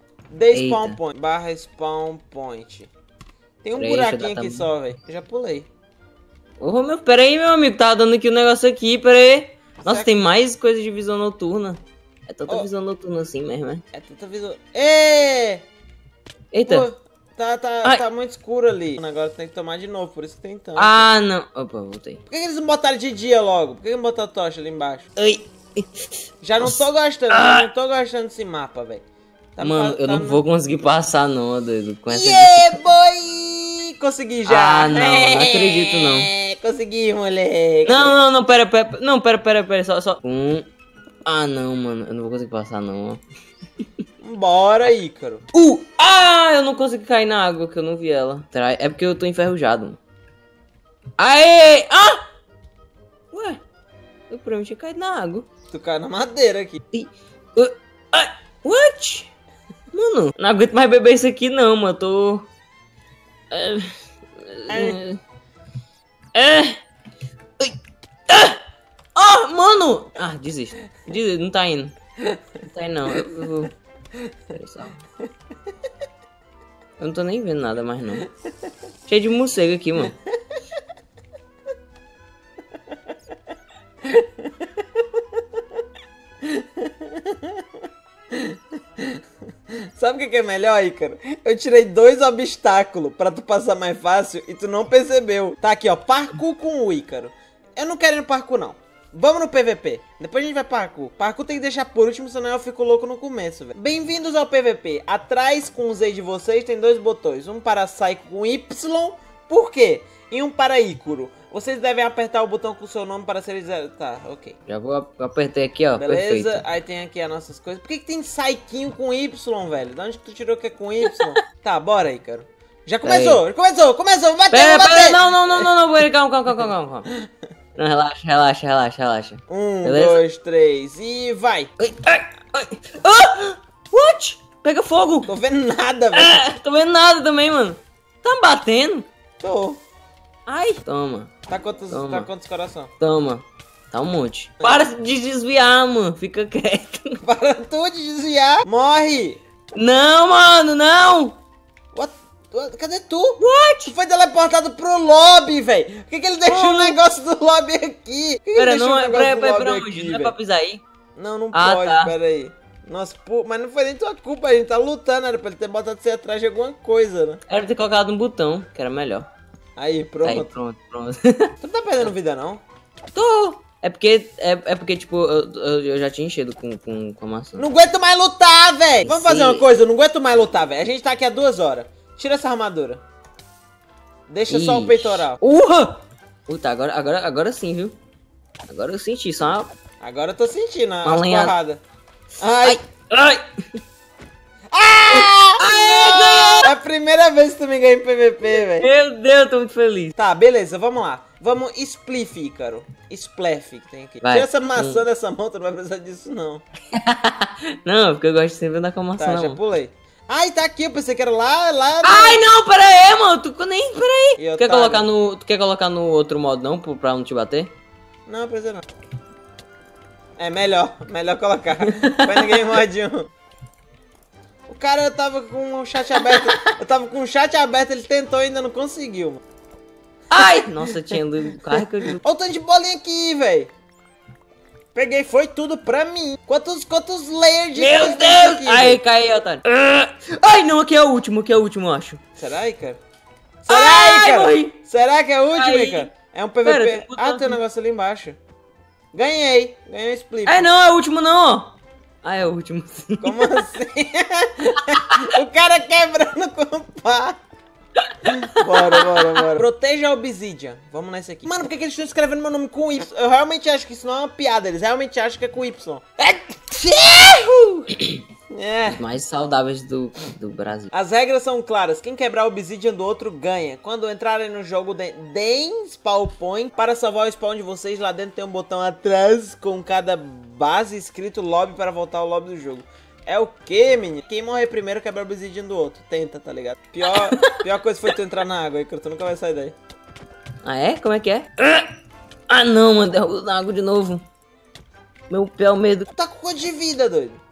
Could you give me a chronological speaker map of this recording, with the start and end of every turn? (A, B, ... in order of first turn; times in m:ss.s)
0:00.3-0:02.9 A
0:00.5-0:01.0 B
0:03.6-0:05.7 A
0:03.8-0:04.7 B
0:06.6-0:13.8 B
0:09.8-0:10.1 A
0:13.9-0:15.6 A
0:16.5-0:16.9 B
0:16.7-0:21.1 A
0:20.8-0:22.2 B
0:22.3-0:25.1 A
0:25.2-0:26.0 B
0:26.4-0:29.0 A
0:26.6-0:27.7 B
0:29.6-0:30.4 A
0:29.6-0:32.8 B
0:32.1-0:38.1 A
0:34.5-0:36.3 B
0:37.8-0:40.7 B
0:41.3-0:43.2 B
0:44.2-0:45.4 A
0:45.5-0:50.0 B
0:51.2-0:52.2 B
0:53.3-0:53.6 B
0:54.3-0:55.5 B
0:55.7-0:56.8 A
0:56.9-0:59.3 B
0:59.9-1:02.5 B
1:03.5-1:05.2 B
1:04.7-1:05.0 A
1:06.3-1:06.8 B
1:08.3-1:08.6 B
1:09.2-1:12.0 B
1:12.7-1:13.7 B
1:14.5-1:15.0 B
1:17.0-1:18.3 B
1:19.1-1:20.2 B
1:26.4-1:27.6 A
1:28.3-1:29.2 A
1:29.9-1:54.6 A
1:54.7-1:56.6 B
1:56.0-2:05.7 A
2:03.0-2:03.4 B
2:04.5-2:07.1 B
2:07.8-2:10.2 B
2:09.5-2:11.7 A
2:11.8-2:15.3 B
2:15.3-2:16.4 A
2:16.1-2:19.1 B
2:19.4-2:19.8 A
2:20.5-2:21.3 B
2:21.5-2:22.9 A
2:21.9-2:22.3 B
2:23.0-2:27.2 B
2:24.6-2:24.9 A
2:27.2-2:29.4 A
2:29.7-2:31.4 B
2:31.9-2:40.3 A
2:33.4-2:33.9 B
2:36.5-2:37.0 B
2:38.6-2:40.8 B
2:41.2-2:47.4 A
2:41.5-2:42.1 B
2:47.5-2:49.3 B
2:49.8-2:50.5 A
2:50.2-2:52.1 B
2:51.6-2:52.6 A
2:53.1-2:57.6 B
2:57.6-3:03.0 A
2:59.0-2:59.7 B
3:04.3-3:05.4 A
3:04.5-3:08.0 B
3:08.7-3:09.7 B
3:10.0-3:11.8 A
3:11.0-3:11.5 B
3:12.4-3:12.8 A
3:12.6-3:13.8 B
3:14.7-3:18.9 A
3:15.1-3:16.7 B
3:18.4-3:20.2 B
3:20.2-3:26.6 A
3:24.2-3:25.0 B
3:26.9-3:29.6 B
3:29.2-3:32.4 A
3:32.0-3:37.7 B
3:34.4-3:35.1 A
3:38.3-3:38.8 A
3:40.4-3:43.3 A
3:41.8-3:42.7 B
3:44.7-3:49.4 A
3:50.3-3:52.2 B
3:50.4-3:50.7 A
3:52.2-3:53.7 A
3:55.0-3:59.0 A
3:57.8-4:02.2 B
4:02.4-4:03.0 A
4:03.6-4:08.4 A
4:03.7-4:04.8 B
4:05.5-4:06.1 B
4:06.6-4:07.6 B
4:09.1-4:10.7 A
4:10.5-4:13.6 B
4:13.2-4:17.4 A
4:18.0-4:19.2 B
4:18.3-4:27.9 A
4:27.9-4:28.2 B
4:28.5-4:29.0 A
4:28.9-4:30.9 B
4:30.9-4:49.8 A
4:50.6-4:51.9 B
4:52.5-4:54.2 B
4:55.3-4:56.1 B
4:56.2-4:57.4 A